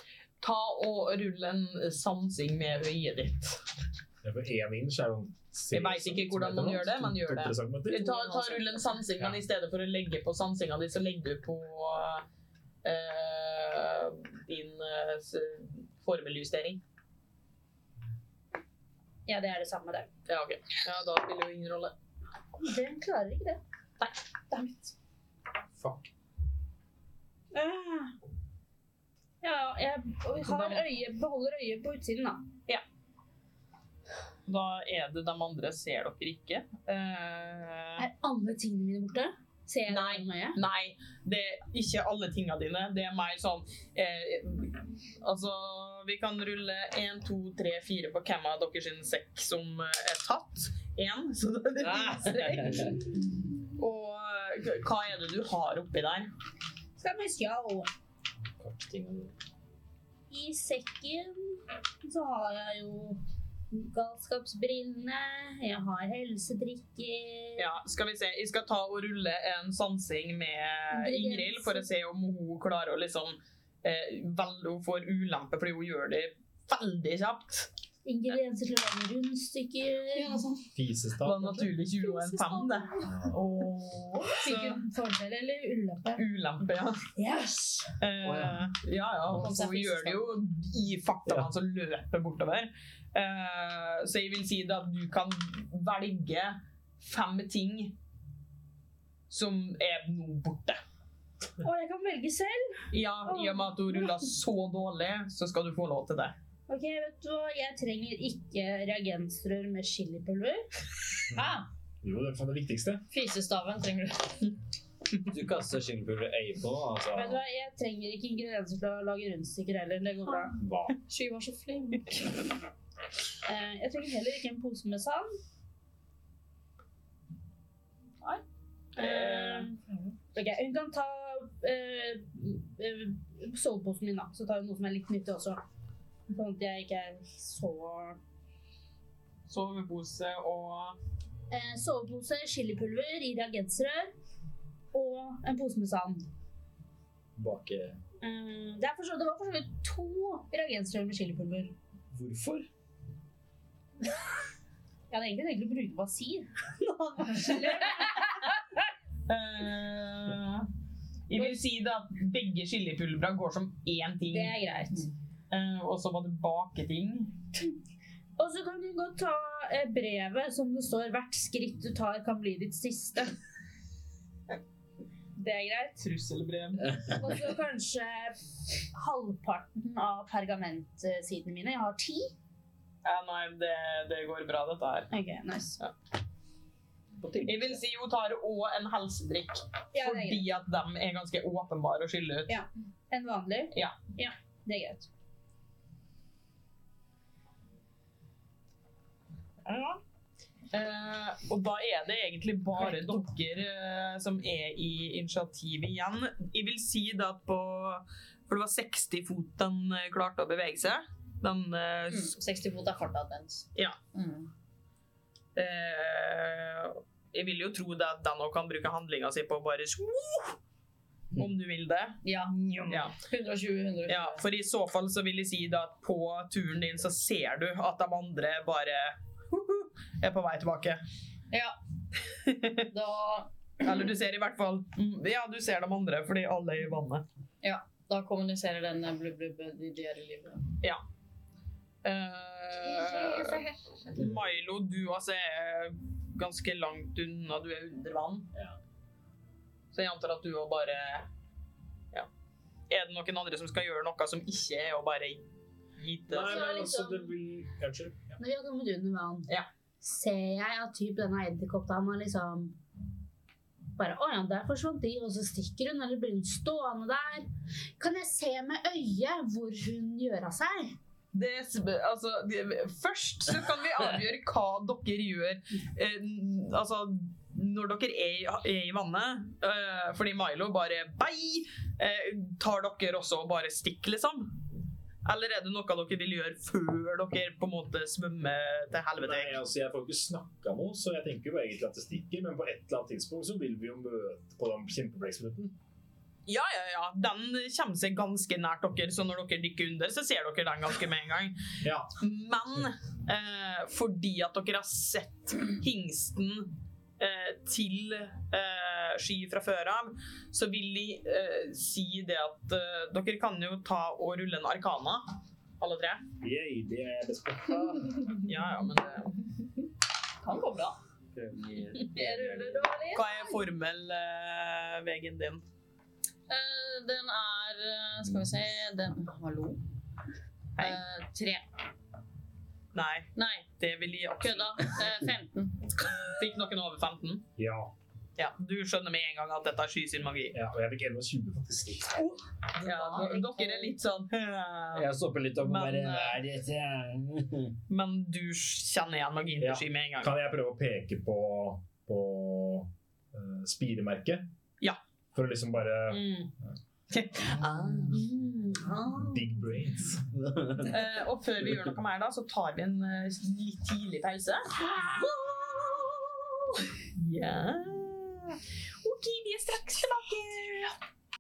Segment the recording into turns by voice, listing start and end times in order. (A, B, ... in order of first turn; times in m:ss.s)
0:00.4-0:03.6 A
0:04.2-0:08.1 B
0:05.7-0:12.2 A
0:07.9-0:08.9 C
0:12.8-0:16.8 A
0:19.2-0:20.1 C
0:20.3-0:21.9 A
0:22.6-0:23.6 C
0:25.8-0:26.1 B
0:27.5-0:28.1 C
0:29.4-0:32.4 C
0:30.4-0:30.8 A
0:34.5-0:38.0 A
0:38.0-0:40.6 C
0:39.9-0:53.0 A
0:51.8-0:53.0 D
0:53.8-0:56.3 A
0:57.0-0:57.9 C
0:58.6-0:59.3 D
1:00.3-1:07.7 C
1:07.6-1:17.7 A
1:10.9-1:11.9 C
1:18.0-1:20.4 C
1:20.1-1:20.7 E
1:20.7-1:21.7 B
1:21.2-1:24.8 A
1:22.0-1:23.3 C
1:24.2-1:26.2 C
1:26.1-1:27.0 A
1:27.2-1:28.0 C
1:28.0-1:38.0 A
1:28.2-1:28.6 D
1:29.3-1:30.3 E
1:39.3-1:40.8 A
1:41.6-1:44.2 C
1:42.9-1:46.3 A
1:46.7-1:50.7 C
1:51.3-1:51.7 E
1:52.0-1:53.0 B
1:53.1-1:54.5 E
1:55.2-1:57.4 D
1:57.1-2:00.6 C
2:00.6-2:01.0 D
2:01.1-2:02.3 E
2:03.4-2:05.3 C
2:08.9-2:09.8 C
2:09.0-2:09.7 A
2:10.3-2:15.6 C
2:16.3-2:18.2 C
2:19.5-2:21.0 A
2:21.5-2:24.1 C
2:24.9-2:26.3 C
2:27.4-2:28.0 D
2:28.2-2:31.7 C
2:32.1-2:32.7 D
2:35.1-2:38.4 C
2:39.3-2:40.7 A
2:41.3-2:44.5 A
2:44.3-2:45.1 C
2:45.5-2:47.4 A
2:48.4-2:53.4 C
2:55.3-2:56.0 C
2:56.0-2:57.1 A
2:57.1-3:02.3 C
3:03.0-3:05.1 A
3:05.1-3:05.8 C
3:07.2-3:07.8 D
3:07.4-3:12.6 A
3:09.9-3:10.4 C
3:12.5-3:15.1 C
3:19.6-3:20.0 A
3:20.7-3:32.4 A
3:32.1-3:34.5 E
3:35.6-3:40.6 A
3:41.3-3:42.2 A
3:42.2-3:44.4 E
3:42.9-3:43.2 A
3:44.1-3:51.0 A
3:51.5-3:51.8 E
3:52.3-3:52.8 A
3:52.9-3:53.5 E
3:53.8-3:57.2 A
3:57.6-4:00.7 E
4:02.0-4:08.5 A
4:02.9-4:03.7 C
4:04.2-4:04.4 D
4:09.9-4:11.3 A
4:12.9-4:15.4 A
4:16.0-4:16.8 A
4:16.3-4:18.4 B
4:16.4-4:17.3 C
4:18.4-4:19.5 C
4:20.0-4:22.8 C
4:24.0-4:27.5 C
4:28.0-4:31.0 C
4:31.3-4:44.6 A
4:45.2-4:49.6 A
4:49.2-4:55.8 B
4:56.5-5:01.6 A
5:01.8-5:02.1 B
5:02.2-5:15.2 A
5:15.8-5:16.2 A
5:16.4-5:18.4 B
5:17.7-5:19.4 A
5:20.4-5:21.0 E
5:21.3-5:23.0 D
5:22.1-5:23.3 E
5:23.1-5:25.6 A
5:26.5-5:29.8 E
5:30.8-5:31.6 E
5:32.9-5:33.3 A
5:33.4-5:33.7 E
5:33.8-5:35.0 A
5:34.4-5:35.8 E
5:36.1-5:37.4 A
5:37.6-5:37.9 B
5:38.4-5:40.6 A
5:40.5-5:42.2 B
5:42.8-5:45.1 A
5:42.9-5:43.9 C
5:44.9-5:47.8 D
5:45.6-5:46.4 A
5:47.9-5:50.3 A
5:49.6-5:54.5 B
5:55.3-5:56.7 B
5:56.2-5:56.5 A
5:57.1-5:58.2 A
5:58.1-5:59.6 C
5:59.1-6:00.3 B
6:00.4-6:00.9 D
6:00.8-6:11.0 A
6:04.8-6:05.4 C